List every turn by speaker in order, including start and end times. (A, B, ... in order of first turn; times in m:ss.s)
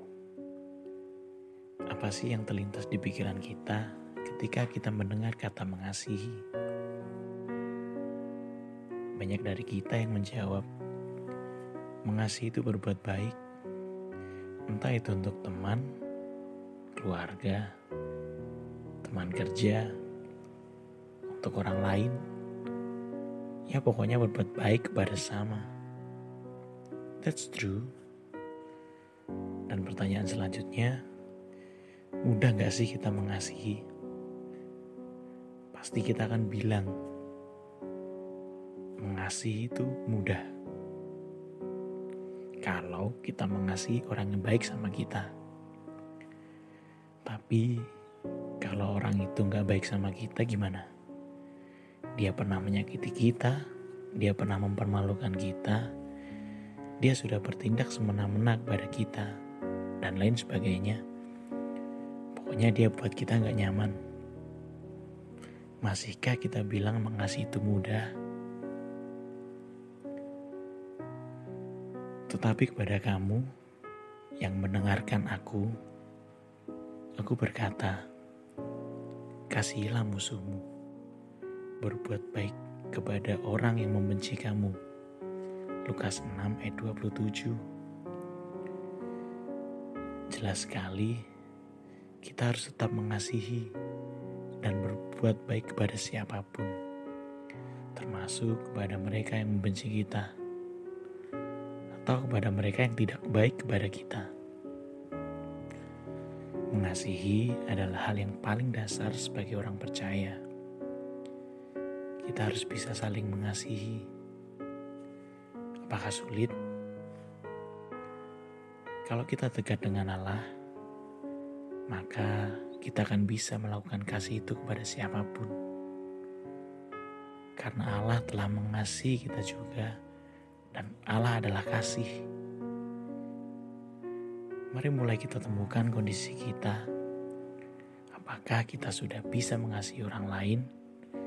0:01.9-0:06.4 A
0:09.2-0:10.7 A
0:12.1-0:13.4 A
0:14.7-0:15.9 A
0:17.0-0:17.6 A
0:19.0-0:19.8 A
0:21.3-0:22.2 A
0:23.7-0:25.6 A
0:27.2-0:27.9 A
0:29.7-0:30.9 A
0:32.2-0:33.8 A
0:35.7-0:36.9 A
0:39.0-0:40.4 A
0:42.6-0:45.3 A
0:47.3-0:47.8 A
0:48.6-0:50.8 A
0:52.2-0:53.6 A
0:54.2-0:55.8 A
0:57.0-0:59.3 A
1:00.0-1:01.0 A
1:02.4-1:04.0 A
1:05.8-1:08.0 A
1:12.3-1:13.4 A
1:14.4-1:15.7 A
1:17.2-1:18.0 A
1:19.5-1:20.6 A
1:21.8-1:24.8 A
1:25.9-1:27.6 A
1:30.3-1:31.2 A
1:32.2-1:33.7 A
1:34.6-1:36.8 A
1:38.0-1:40.3 A
1:42.0-1:44.3 A
1:46.7-1:50.4 A
1:52.2-1:54.1 A
1:55.8-1:56.6 A
1:59.1-2:00.4 A
2:01.9-2:05.5 A
2:07.6-2:09.9 A
2:10.7-2:12.1 A
2:14.7-2:16.8 A
2:18.1-2:20.6 A